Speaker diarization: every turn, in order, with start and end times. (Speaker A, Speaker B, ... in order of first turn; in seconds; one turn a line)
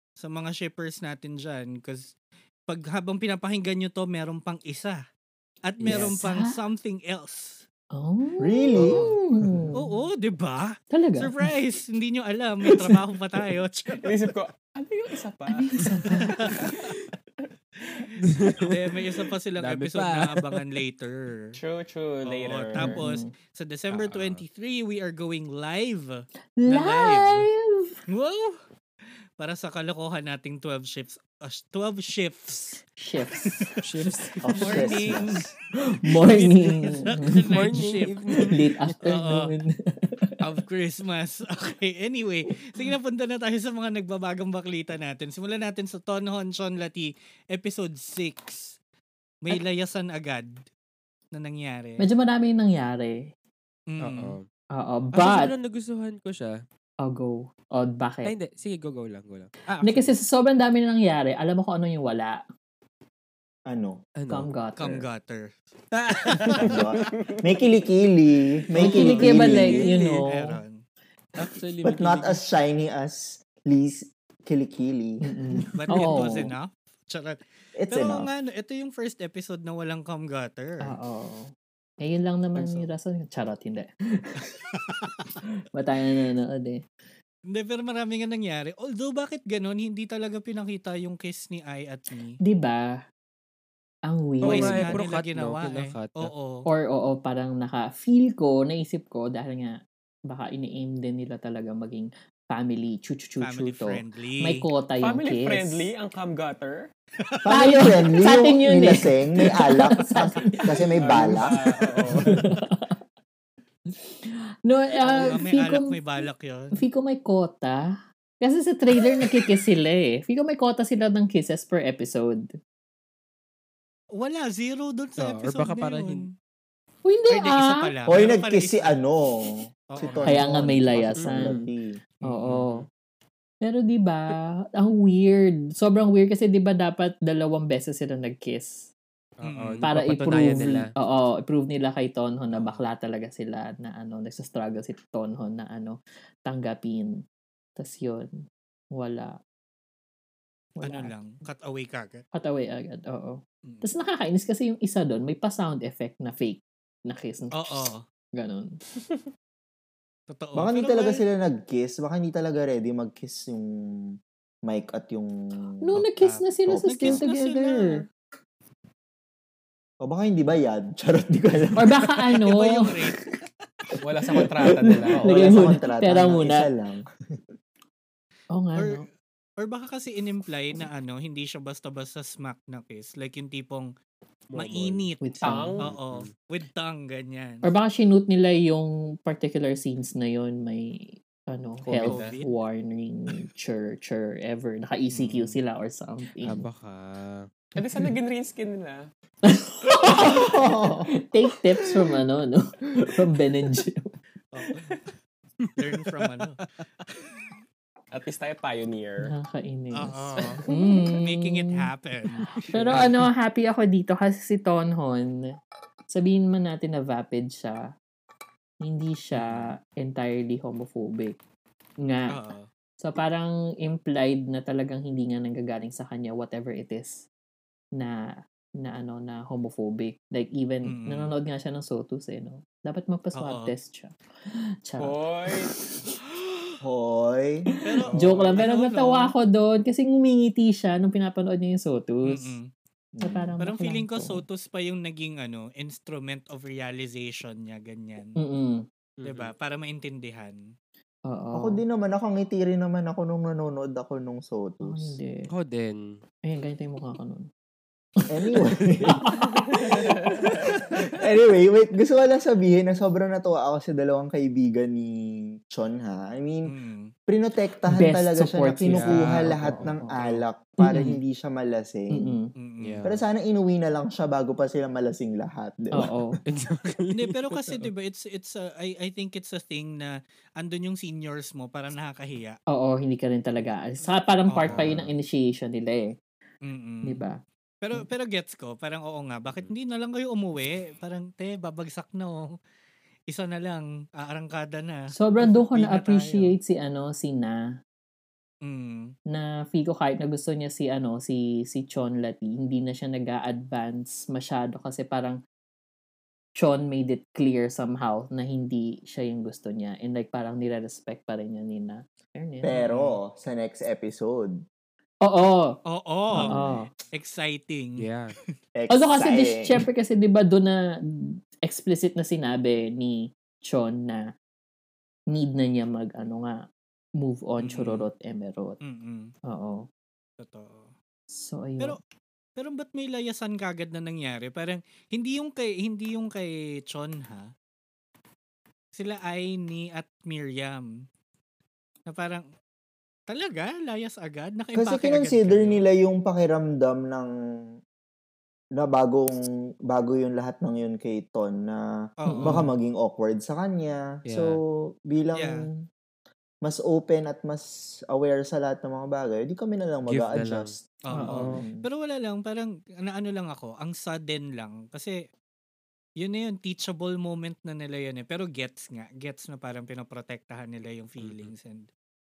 Speaker A: 0.2-2.1
Speaker A: 2.7-5.0
Speaker A: 5.7-7.6
Speaker B: 5.8-6.2
Speaker C: 5.8-6.6
Speaker C: 7.9-9.9
Speaker D: 8.4-9.7
Speaker E: 8.8-9.0
Speaker A: 9.8-14.3
Speaker C: 10.9-11.5
Speaker E: 14.0-18.1
Speaker C: 15.5-16.8
Speaker A: 16.4-16.8
Speaker B: 18.2-18.8
Speaker A: 18.6-21.5
Speaker B: 19.6-20.6
Speaker E: 21.5-23.0
Speaker A: 22.2-27.5
Speaker C: 22.8-23.3
Speaker B: 23.9-24.4
Speaker C: 26.6-28.0
Speaker A: 28.1-28.6
Speaker A: 29.4-32.8
Speaker C: 33.0-34.8
Speaker B: 33.8-34.9
Speaker D: 34.4-35.4
Speaker A: 34.6-35.5
Speaker C: 35.8-37.9
Speaker A: 36.1-38.2
Speaker B: 37.5-39.0
Speaker C: 38.4-40.4
Speaker A: 39.0-39.5
Speaker A: 40.4-48.8
Speaker A: 49.4-50.6
Speaker A: 51.3-52.1
Speaker C: 52.0-53.3
Speaker A: 53.9-54.4
Speaker B: 54.0-54.5
Speaker C: 54.8-55.5
Speaker B: 55.1-56.5
Speaker C: 57.0-58.3
Speaker B: 58.2-60.1
Speaker C: 59.8-62.4
Speaker D: 63.7-64.0
Speaker B: 64.2-64.5
Speaker C: 64.3-65.1
Speaker A: 64.8-65.6
Speaker B: 65.9-66.8
Speaker A: 66.2-66.7
Speaker D: 66.6-69.9
Speaker A: 68.8-70.8
Speaker C: 68.8-70.6
Speaker B: 69.1-69.9
Speaker B: 71.4-72.4
Speaker D: 71.8-76.3
Speaker C: 75.2-76.5
Speaker A: 75.7-77.4
Speaker D: 77.8-78.3
Speaker A: 77.9-80.9
Speaker C: 80.8-84.4
Speaker A: 82.6-82.9
Speaker A: 84.7-85.4
Speaker C: 85.4-86.8
Speaker A: 87.5-92.4
Speaker C: 92.4-93.0
Speaker C: 94.1-95.0
Speaker B: 94.4-96.3
Speaker A: 94.4-96.7
Speaker C: 96.7-105.9
Speaker A: 103.4-104.6
Speaker E: 105.0-106.9
Speaker D: 107.4-111.6
Speaker C: 107.5-110.8
Speaker E: 111.0-112.5
Speaker C: 112.1-113.0
Speaker C: 114.2-116.0
Speaker A: 115.1-116.8
Speaker C: 116.8-122.5
Speaker A: 124.2-126.3
Speaker B: 125.2-126.3
Speaker C: 127.0-127.9
Speaker A: 127.3-129.0
Speaker D: 128.1-132.0
Speaker A: 129.9-130.4
Speaker C: 130.2-131.6
Speaker B: 131.2-131.6
Speaker C: 132.2-132.9
Speaker A: 132.3-132.7
Speaker C: 133.6-138.9
Speaker B: 139.4-140.9
Speaker A: 139.4-139.9
Speaker C: 139.8-147.2
Speaker A: 142.6-142.8
Speaker C: 147.8-148.4
Speaker C: 148.9-149.4
Speaker C: 150.8-151.1
Speaker A: 150.8-152.2
Speaker C: 152.3-158.8
Speaker A: 157.6-158.0
Speaker A: 160.3-161.2
Speaker D: 160.6-164.1
Speaker D: 164.7-166.0
Speaker C: 165.8-168.0
Speaker A: 165.9-168.0
Speaker D: 166.7-167.3
Speaker D: 170.0-172.4
Speaker C: 171.8-173.0
Speaker A: 172.4-173.2
Speaker E: 174.0-175.8
Speaker C: 174.3-176.7
Speaker D: 175.2-177.0
Speaker C: 178.5-179.1
Speaker A: 178.8-179.1
Speaker A: 179.6-183.9
Speaker B: 184.5-185.1
Speaker A: 184.6-187.7
Speaker C: 185.2-185.8
Speaker E: 185.4-185.9
Speaker B: 185.9-186.3
Speaker C: 187.6-196.7
Speaker E: 191.8-192.4
Speaker A: 192.0-192.5
Speaker A: 195.1-195.6
Speaker B: 196.4-197.5
Speaker E: 197.8-199.1
Speaker C: 199.4-204.1
Speaker D: 200.0-201.1
Speaker A: 204.5-205.0
Speaker E: 204.7-204.9
Speaker B: 205.6-205.9
Speaker A: 205.8-206.6
Speaker E: 208.1-209.3
Speaker C: 209.2-215.4
Speaker A: 209.9-210.6
Speaker A: 211.2-212.3
Speaker B: 212.4-213.1
Speaker C: 216.1-217.9
Speaker C: 218.8-221.4
Speaker A: 219.4-219.7
Speaker C: 222.0-222.4
Speaker A: 222.3-222.7
Speaker C: 223.0-227.3
Speaker C: 227.9-235.9
Speaker A: 230.9-231.3
Speaker A: 233.4-233.7
Speaker E: 235.0-235.7
Speaker D: 236.8-238.6
Speaker A: 237.8-239.3
Speaker C: 237.9-242.6
Speaker A: 242.2-242.7
Speaker D: 243.1-243.5
Speaker C: 243.2-244.4
Speaker A: 243.6-248.4
Speaker C: 248.4-248.8
Speaker B: 249.2-249.5
Speaker A: 249.2-250.6
Speaker C: 251.3-251.8
Speaker D: 251.5-255.2
Speaker C: 254.8-255.5
Speaker B: 255.5-256.0
Speaker C: 256.4-257.5
Speaker C: 258.2-260.1
Speaker D: 258.3-259.2
Speaker D: 259.9-266.7
Speaker E: 259.9-260.4
Speaker A: 266.7-267.1
Speaker D: 267.3-272.4
Speaker C: 267.9-270.2
Speaker B: 268.9-269.9
Speaker A: 270.1-270.4
Speaker C: 270.8-271.2
Speaker C: 272.1-272.5
Speaker A: 272.6-273.0
Speaker B: 272.8-273.2
Speaker D: 273.1-276.2
Speaker C: 275.9-276.4
Speaker B: 276.5-277.9
Speaker A: 277.1-282.6
Speaker C: 282.7-286.1
Speaker A: 284.5-284.9
Speaker D: 284.7-285.1
Speaker A: 286.6-287.2
Speaker C: 287.1-287.4
Speaker A: 287.8-292.5
Speaker B: 289.4-289.7
Speaker A: 293.3-296.5
Speaker C: 295.1-297.8
Speaker A: 298.6-299.1
Speaker C: 299.3-305.4
Speaker C: 306.6-312.8
Speaker D: 312.6-314.6
Speaker A: 312.8-313.1
Speaker C: 315.2-315.8
Speaker A: 315.9-318.1
Speaker C: 316.3-316.9
Speaker B: 316.4-316.7
Speaker B: 318.0-318.3
Speaker D: 318.8-319.8
Speaker C: 318.9-324.3
Speaker C: 325.3-326.6
Speaker C: 327.2-328.8
Speaker A: 327.6-328.1
Speaker A: 328.8-329.3
Speaker C: 329.5-329.9
Speaker A: 330.4-330.9
Speaker C: 331.3-331.9
Speaker A: 332.6-337.5
Speaker A: 338.9-340.9
Speaker A: 342.1-342.4
Speaker A: 343.3-345.8
Speaker D: 344.8-347.3
Speaker D: 348.8-351.9
Speaker A: 352.2-352.6
Speaker C: 352.3-352.6
Speaker D: 352.4-355.8
Speaker B: 354.2-354.6
Speaker A: 355.4-355.6
Speaker D: 356.6-361.9
Speaker B: 360.1-360.7
Speaker A: 361.1-365.2
Speaker C: 361.1-361.6
Speaker A: 366.2-371.9
Speaker B: 371.2-371.5